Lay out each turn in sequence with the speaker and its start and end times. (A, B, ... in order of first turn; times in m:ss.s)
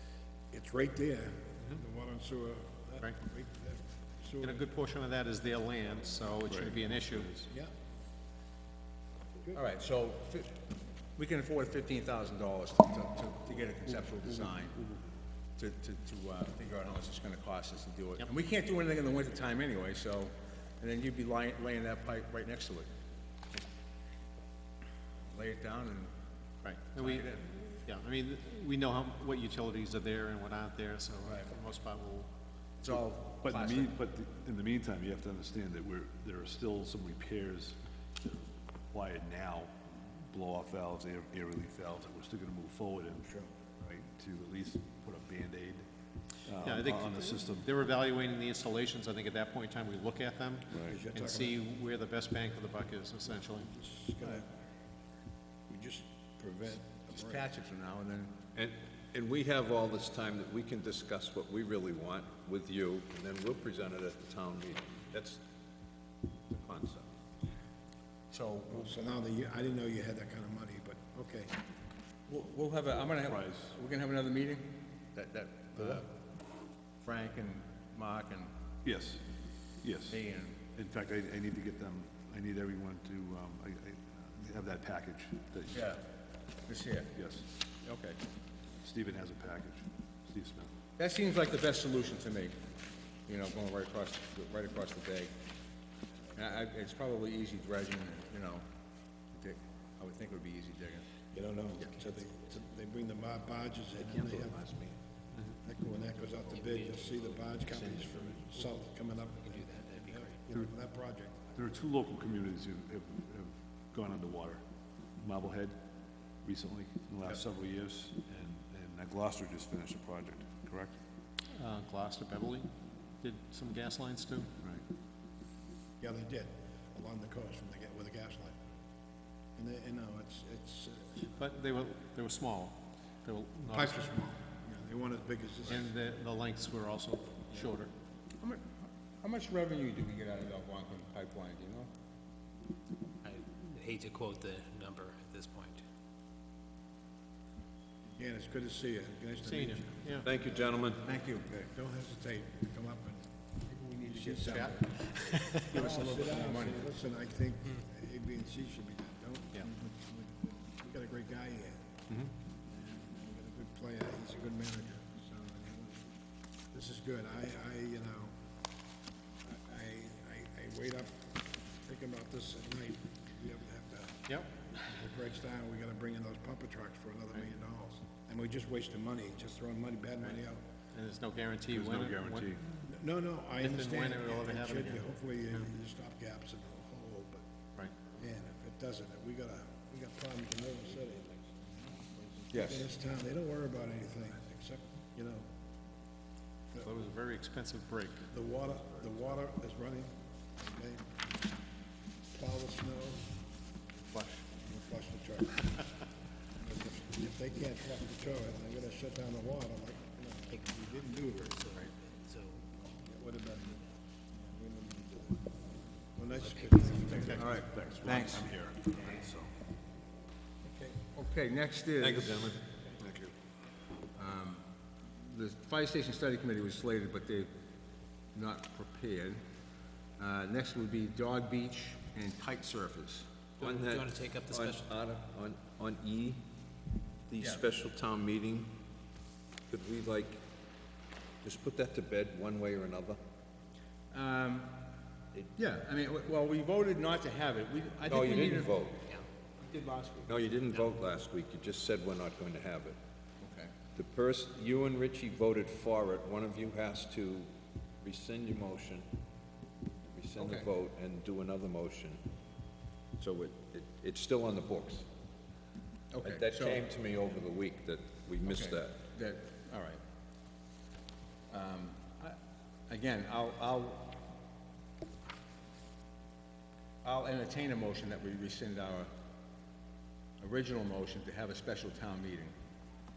0:00.5-0:04.7 A
0:04.4-0:07.5 B
0:06.5-0:07.4 C
0:09.6-0:10.6 D
0:11.2-0:14.8 D
0:14.3-0:15.0 C
0:15.6-0:22.9 D
0:25.3-0:26.1 D
0:26.6-0:32.3 B
0:27.0-0:27.5 D
0:31.2-0:31.5 D
0:32.8-0:33.9 D
0:33.4-0:45.9 C
0:46.5-0:47.7 C
0:46.6-0:53.7 B
0:50.7-0:51.0 C
0:50.9-0:51.6 A
0:53.4-0:54.5 A
0:55.7-0:57.5 A
0:57.1-0:58.4 D
0:58.6-1:05.4 E
1:06.5-1:07.1 E
1:08.3-1:08.9 D
1:08.7-1:11.5 A
1:12.3-1:16.2 D
1:13.2-1:13.7 C
1:17.0-1:18.5 D
1:18.8-1:19.2 C
1:19.8-1:20.2 C
1:20.1-1:20.6 D
1:20.8-1:25.9 C
1:25.7-1:26.0 D
1:26.7-1:27.1 D
1:27.2-1:27.5 C
1:27.8-1:28.2 D
1:28.8-1:30.7 C
1:31.0-1:32.6 D
1:33.3-1:35.3 D
1:36.4-1:38.6 D
1:39.3-1:41.0 D
1:41.3-1:45.0 A
1:45.6-1:51.6 A
1:46.5-1:48.4 F
1:49.4-1:50.5 F
1:51.6-1:54.6 C
1:55.2-1:55.8 C
1:56.4-2:01.0 C
2:01.6-2:04.5 B
2:06.0-2:08.6 A
2:09.6-2:11.3 A
2:11.4-2:14.1 B
2:13.7-2:15.9 A
2:15.7-2:17.9 B
2:18.4-2:21.9 D
2:23.2-2:25.8 F
2:28.2-2:31.1 A
2:29.4-2:30.3 B
2:30.2-2:31.0 E
2:31.0-2:31.7 D
2:31.7-2:33.3 A
2:33.7-2:34.8 D
2:34.1-2:34.8 A
2:34.9-2:35.9 B
2:35.6-2:36.9 D
2:35.7-2:41.9 A
2:42.7-2:46.1 A
2:46.7-2:48.3 A
2:49.4-2:54.2 A
2:54.7-3:00.6 A
3:00.9-3:02.6 B
3:01.7-3:02.6 C
3:02.8-3:07.4 A
3:03.6-3:05.2 B
3:08.1-3:15.5 A
3:12.5-3:12.9 D
3:16.8-3:18.3 B
3:18.3-3:21.0 A
3:22.3-3:23.3 A
3:24.1-3:24.4 B
3:24.6-3:25.8 A
3:26.6-3:31.5 A
3:30.5-3:32.6 F
3:32.8-3:35.5 A
3:36.1-3:37.5 A
3:36.3-3:37.5 F
3:37.2-3:38.6 D
3:37.5-3:39.5 C
3:38.9-3:39.3 F
3:40.6-3:41.0 A
3:41.1-3:42.5 D
3:42.0-3:43.3 C
3:44.2-3:44.6 D
3:45.2-3:47.5 D
3:48.3-3:49.4 D
3:50.2-3:53.3 D
3:53.6-3:54.9 F
3:53.6-3:56.4 E
3:57.3-3:58.8 E
3:57.4-3:57.6 D
3:59.7-4:00.4 E
4:01.4-4:03.2 E
4:04.1-4:04.8 D
4:05.6-4:08.8 D
4:08.1-4:09.0 E
4:09.6-4:10.3 D
4:10.3-4:13.0 E
4:13.4-4:13.7 D
4:14.0-4:17.5 E
4:18.0-4:19.1 E
4:20.1-4:22.2 E
4:20.4-4:20.7 D
4:23.2-4:25.1 E
4:26.1-4:26.8 D
4:26.2-4:29.0 E
4:28.4-4:30.0 D
4:31.5-4:32.4 D
4:32.9-4:34.2 D
4:37.0-4:39.1 D
4:40.4-4:42.5 D